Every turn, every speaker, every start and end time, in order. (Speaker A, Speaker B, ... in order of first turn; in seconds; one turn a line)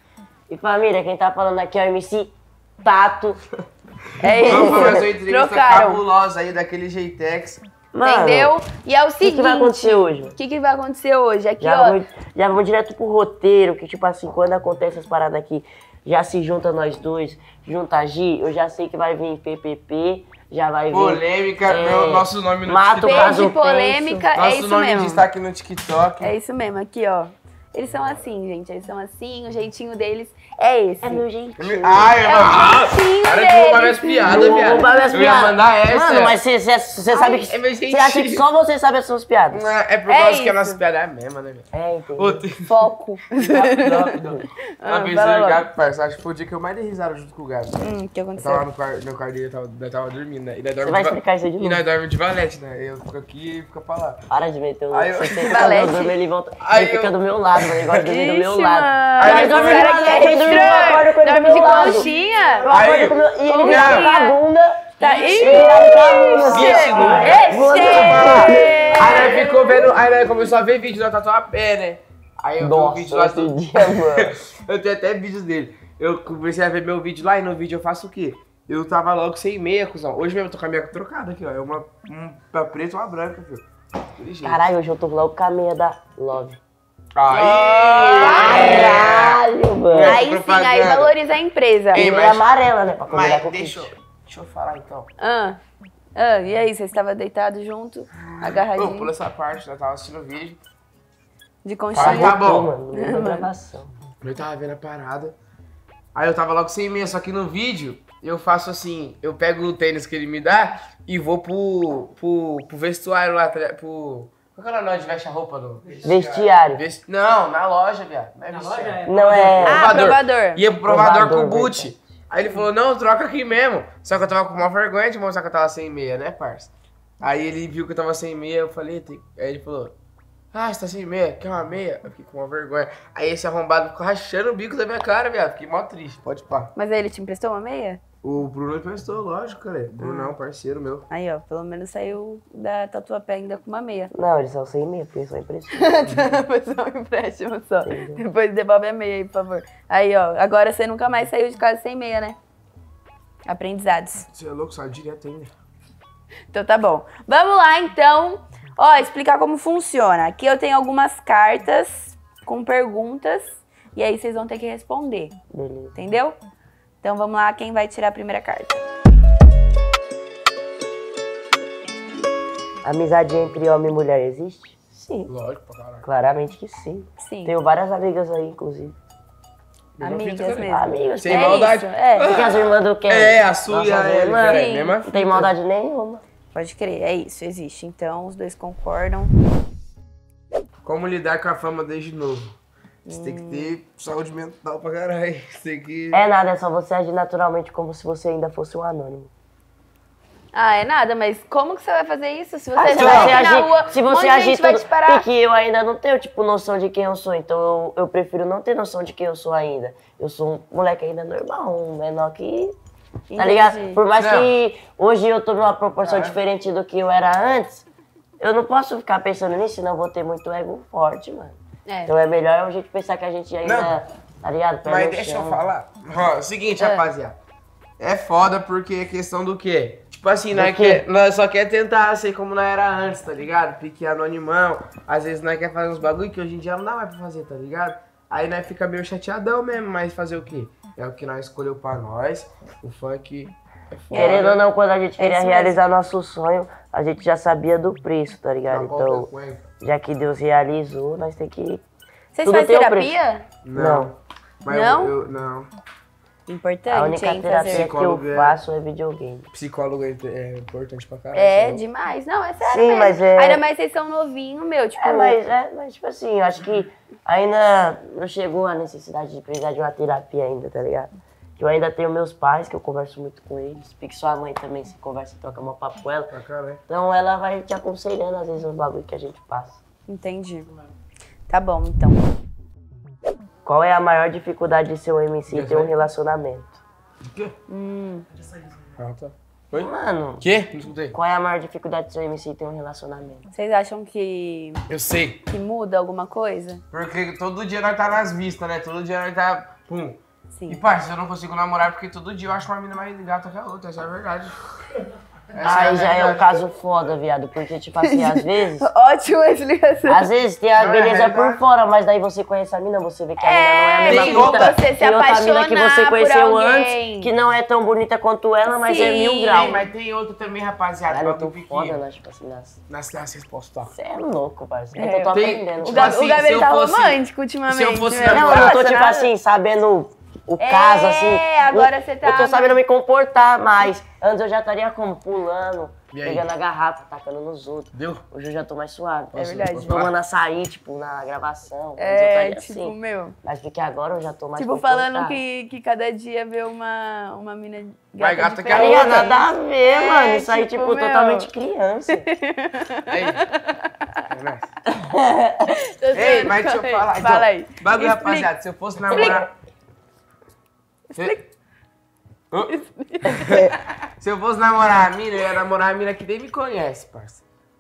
Speaker A: 0.5-3.4
Speaker B: 4.2-6.0
Speaker A: 4.3-5.1
Speaker C: 4.4-7.6
Speaker A: 7.9-8.6
Speaker B: 8.0-12.0
Speaker A: 9.2-10.4
Speaker A: 11.6-24.3
Speaker C: 20.9-23.5
Speaker B: 23.0-25.2
Speaker C: 24.4-26.4
Speaker B: 26.2-31.2
Speaker A: 31.0-32.5
Speaker C: 31.6-36.4
Speaker B: 32.2-35.4
Speaker A: 34.2-39.7
Speaker C: 37.1-38.5
Speaker C: 39.5-41.7
Speaker B: 40.1-40.8
Speaker A: 41.7-42.4
Speaker C: 42.2-42.7
Speaker B: 42.6-44.2
Speaker C: 43.3-54.2
Speaker B: 44.8-45.6
Speaker B: 47.8-48.7
Speaker A: 50.8-51.8
Speaker A: 54.3-69.5
Speaker C: 54.9-55.9
Speaker B: 55.4-56.2
Speaker C: 56.6-58.0
Speaker B: 58.0-62.7
Speaker C: 59.2-61.0
Speaker C: 62.7-64.1
Speaker B: 63.4-64.4
Speaker B: 65.0-70.0
Speaker C: 65.1-83.7
Speaker A: 72.6-74.4
Speaker C: 84.2-84.7
Speaker A: 84.4-86.6
Speaker C: 87.2-91.1
Speaker B: 87.3-89.0
Speaker A: 87.6-90.2
Speaker B: 90.0-92.1
Speaker C: 91.9-92.5
Speaker A: 91.9-93.9
Speaker C: 93.1-95.1
Speaker B: 95.2-95.6
Speaker B: 96.2-99.1
Speaker C: 98.2-100.6
Speaker B: 101.6-103.5
Speaker C: 101.9-102.7
Speaker A: 102.0-103.9
Speaker C: 104.2-105.3
Speaker C: 106.2-130.0
Speaker A: 116.0-116.8
Speaker A: 119.1-120.0
Speaker B: 119.6-120.6
Speaker A: 120.8-122.0
Speaker C: 130.5-136.7
Speaker B: 136.8-138.0
Speaker C: 138.2-141.1
Speaker B: 140.0-140.3
Speaker B: 141.1-144.1
Speaker A: 144.1-145.9
Speaker B: 145.7-152.4
Speaker A: 147.8-148.2
Speaker B: 153.4-154.3
Speaker C: 154.3-155.5
Speaker B: 156.5-165.4
Speaker A: 165.5-165.9
Speaker B: 165.9-166.4
Speaker B: 167.0-168.8
Speaker A: 172.8-175.3
Speaker C: 175.3-176.1
Speaker A: 176.0-179.0
Speaker B: 177.2-177.5
Speaker C: 180.0-185.5
Speaker B: 180.0-182.3
Speaker A: 180.5-186.2
Speaker B: 184.4-185.0
Speaker B: 186.5-189.3
Speaker C: 190.8-192.6
Speaker B: 193.1-193.8
Speaker C: 193.1-196.3
Speaker A: 196.1-199.3
Speaker B: 200.5-205.2
Speaker A: 202.8-212.8
Speaker C: 202.9-203.4
Speaker B: 213.3-214.0
Speaker A: 213.4-217.9
Speaker C: 214.2-214.5
Speaker C: 216.0-216.4
Speaker A: 218.4-225.6
Speaker B: 221.9-222.2
Speaker C: 223.6-224.0
Speaker C: 224.8-227.4
Speaker B: 226.8-227.1
Speaker C: 228.0-244.6
Speaker A: 230.5-231.0
Speaker B: 244.1-244.5
Speaker A: 244.1-249.3
Speaker B: 245.2-245.8
Speaker C: 248.7-249.7
Speaker A: 249.8-251.8
Speaker B: 252.3-253.5
Speaker A: 252.4-253.2
Speaker C: 253.7-255.7
Speaker A: 253.8-254.1
Speaker B: 254.7-255.1
Speaker B: 256.5-257.9
Speaker A: 256.9-259.5
Speaker C: 257.7-258.6
Speaker C: 259.5-261.8
Speaker B: 261.3-265.4
Speaker A: 262.6-263.6
Speaker A: 265.0-279.8
Speaker C: 276.3-276.8
Speaker B: 280.1-280.7
Speaker B: 281.5-282.3
Speaker A: 283.7-286.8
Speaker C: 285.5-285.9
Speaker C: 287.3-287.6
Speaker B: 287.7-288.2
Speaker C: 289.0-291.2
Speaker A: 289.7-290.5
Speaker A: 291.1-293.5
Speaker B: 293.5-294.8
Speaker C: 294.9-295.4
Speaker B: 295.5-296.8
Speaker C: 296.9-304.6
Speaker B: 300.5-300.8
Speaker C: 305.5-306.6
Speaker A: 305.6-308.9
Speaker B: 308.0-310.3
Speaker A: 310.1-319.9
Speaker C: 310.8-311.6
Speaker B: 313.4-317.3
Speaker C: 314.1-314.8
Speaker B: 318.7-319.8
Speaker C: 319.5-322.0
Speaker A: 321.1-322.8
Speaker C: 322.9-323.9
Speaker A: 323.9-326.4
Speaker B: 325.0-329.3
Speaker C: 325.3-328.8
Speaker A: 328.3-345.4
Speaker B: 330.6-332.8
Speaker C: 336.1-336.5
Speaker C: 337.9-338.2
Speaker C: 339.3-340.1
Speaker B: 339.4-340.0
Speaker B: 342.0-343.4
Speaker B: 344.6-351.5
Speaker C: 348.2-349.4
Speaker A: 348.7-352.3
Speaker B: 352.1-354.3
Speaker C: 353.1-353.5
Speaker C: 354.3-354.7
Speaker A: 354.9-355.7
Speaker B: 355.7-358.5
Speaker C: 356.1-359.5
Speaker B: 359.1-359.5
Speaker B: 361.1-361.5
Speaker B: 362.6-363.8
Speaker C: 363.2-367.4